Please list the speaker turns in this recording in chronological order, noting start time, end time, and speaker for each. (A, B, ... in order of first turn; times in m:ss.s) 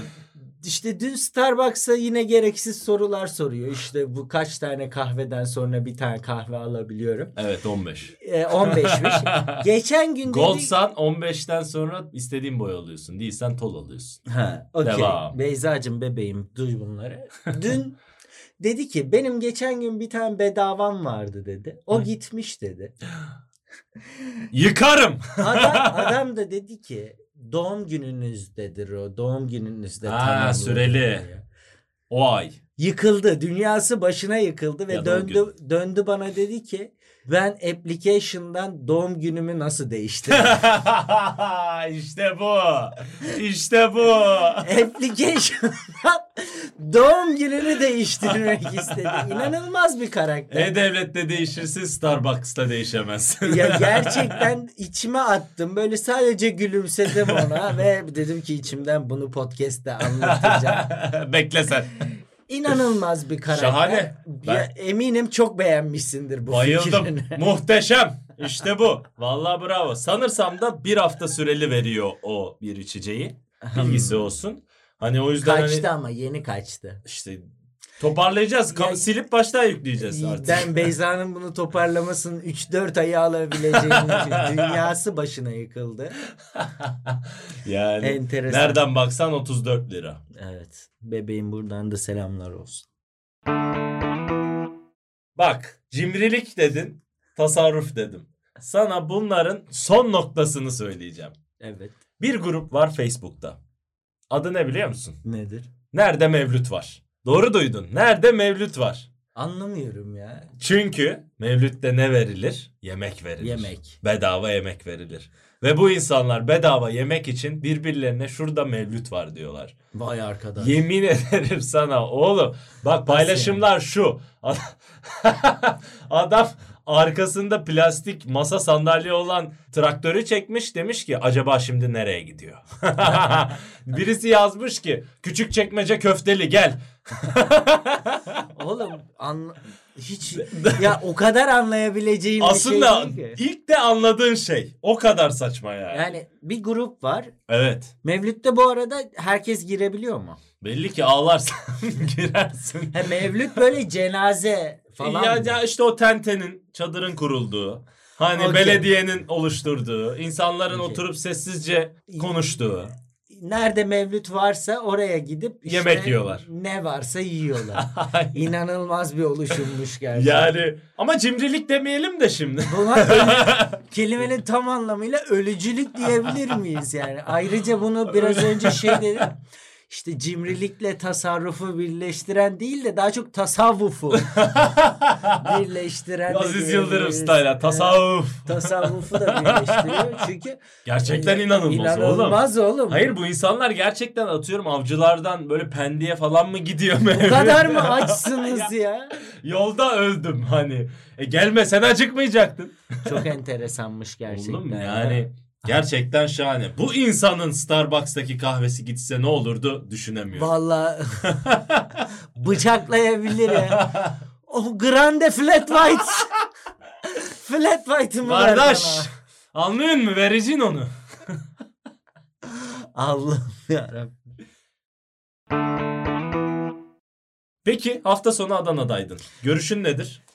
0:00.6-0:07.4 A
0:07.4-0:09.6 B
0:08.2-0:10.7 A
0:10.3-0:14.2 B
0:14.3-0:18.0 A
0:14.8-0:15.4 B
0:18.6-0:22.9 A
0:24.5-0:26.2 B
0:25.4-0:31.4 A
0:30.0-0:31.3 B
0:32.1-0:32.6 B
0:32.8-0:40.6 A
0:34.9-0:35.4 B
0:40.3-0:44.7 B
0:44.6-0:50.7 A
0:48.5-0:49.4 B
0:50.5-0:54.5 B
0:53.4-1:00.9 A
0:57.1-0:57.6 B
1:00.0-1:02.1 B
1:02.5-1:07.4 A
1:03.5-1:04.7 B
1:06.5-1:15.9 B
1:13.6-1:14.3 A
1:15.4-1:17.0 A
1:17.0-1:20.9 B
1:18.7-1:19.0 A
1:20.0-1:26.2 A
1:23.7-1:24.8 B
1:26.6-1:30.2 B
1:28.0-1:28.8 A
1:30.3-1:32.9 A
1:35.4-1:41.4 B
1:41.6-1:42.0 A
1:42.2-1:43.6 B
1:44.3-1:45.2 B
1:45.2-1:45.7 A
1:45.9-1:49.1 B
1:49.4-1:50.5 A
1:50.6-1:59.8 B
1:53.4-1:54.0 A
1:59.9-2:00.8 A
2:00.6-2:18.4 B
2:03.1-2:03.6 A
2:18.5-2:23.4 A
2:20.3-2:21.0 B
2:22.4-2:26.1 B
2:25.9-2:27.3 A
2:27.5-2:27.9 B
2:28.0-2:30.4 A
2:30.6-2:33.3 B
2:32.9-2:35.6 A
2:35.0-2:42.9 B
2:38.4-2:38.9 A
2:40.7-2:41.0 A
2:43.3-2:50.5 A
2:45.7-2:46.4 B
2:47.6-2:48.4 B
2:50.1-2:53.8 B
2:52.7-3:04.4 A
2:58.1-2:59.2 B
3:04.1-3:05.6 B
3:05.3-3:13.1 A
3:06.3-3:10.2 B
3:10.8-3:23.3 B
3:17.1-3:19.1 A
3:23.0-3:25.2 A
3:24.3-3:30.5 B
3:30.4-3:31.4 A
3:31.3-3:32.0 B
3:32.4-3:33.9 A
3:33.5-3:34.2 B
3:34.5-3:36.3 A
3:37.0-3:39.1 A
3:38.2-3:41.4 B
3:42.5-3:44.2 A
3:47.6-3:50.2 B